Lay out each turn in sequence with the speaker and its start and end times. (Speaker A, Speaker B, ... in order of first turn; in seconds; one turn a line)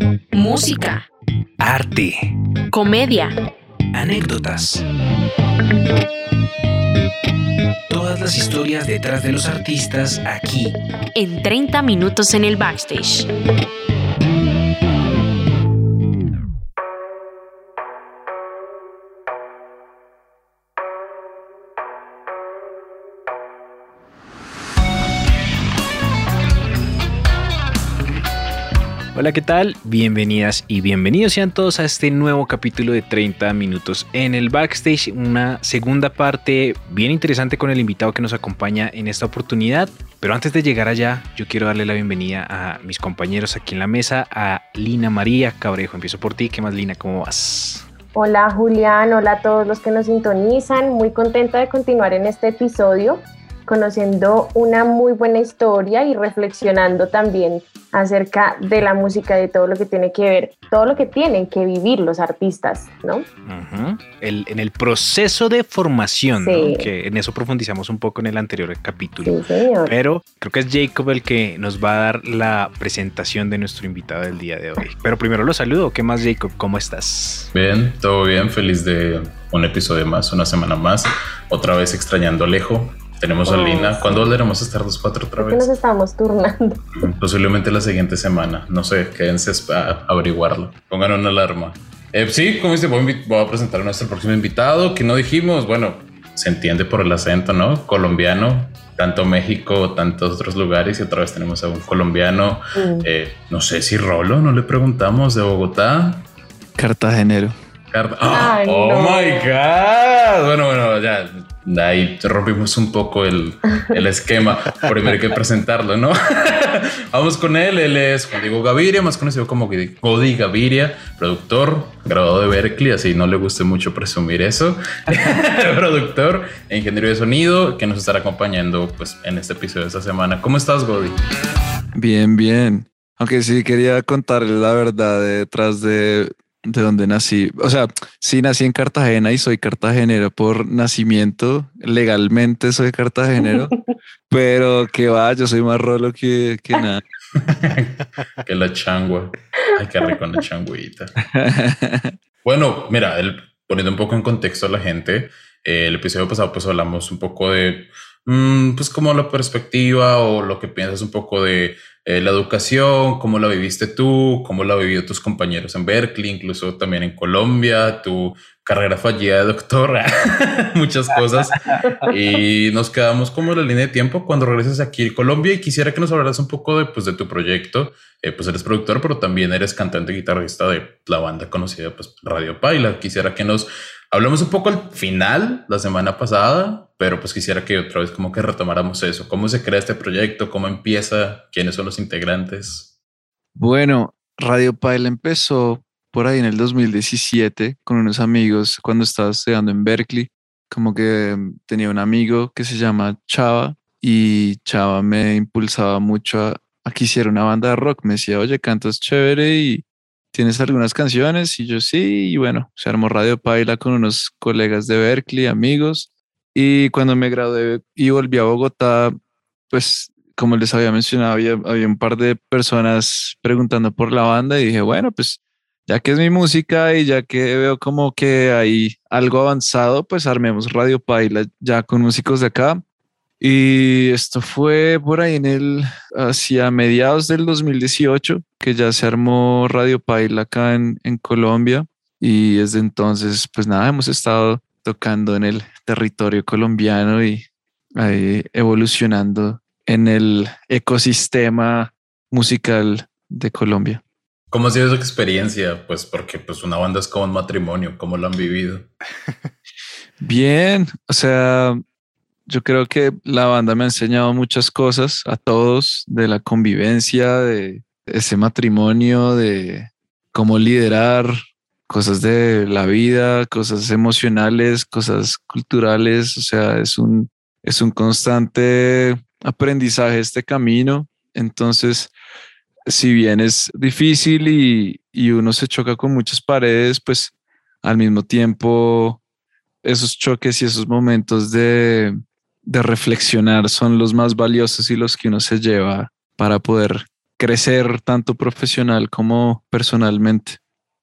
Speaker A: 0.3-1.1
Speaker B: 1.6-2.3
Speaker A: 2.7-3.4
Speaker B: 3.9-4.8
Speaker B: 7.9-10.8
Speaker A: 11.1-13.3
Speaker B: 29.1-47.9
Speaker C: 48.1-63.2
Speaker B: 63.5-77.5
Speaker C: 66.4-66.9
Speaker C: 69.2-69.9
Speaker D: 77.5-85.7
Speaker C: 83.5-84.4
Speaker C: 85.4-87.0
Speaker D: 87.0-106.2
Speaker C: 102.7-103.1
Speaker E: 106.8-107.5
Speaker D: 107.9-131.2
Speaker C: 108.3-109.5
Speaker E: 131.9-143.7
Speaker E: 144.3-147.0
Speaker D: 147.3-151.1
Speaker E: 151.3-152.1
Speaker D: 152.4-192.9
Speaker E: 193.6-219.2
Speaker E: 219.7-232.8
Speaker E: 233.4-254.0
Speaker D: 254.5-258.9
Speaker E: 260.2-261.8
Speaker E: 262.4-271.4
Speaker E: 271.9-282.1
Speaker E: 282.9-287.3
Speaker E: 287.8-289.2
Speaker E: 289.8-300.6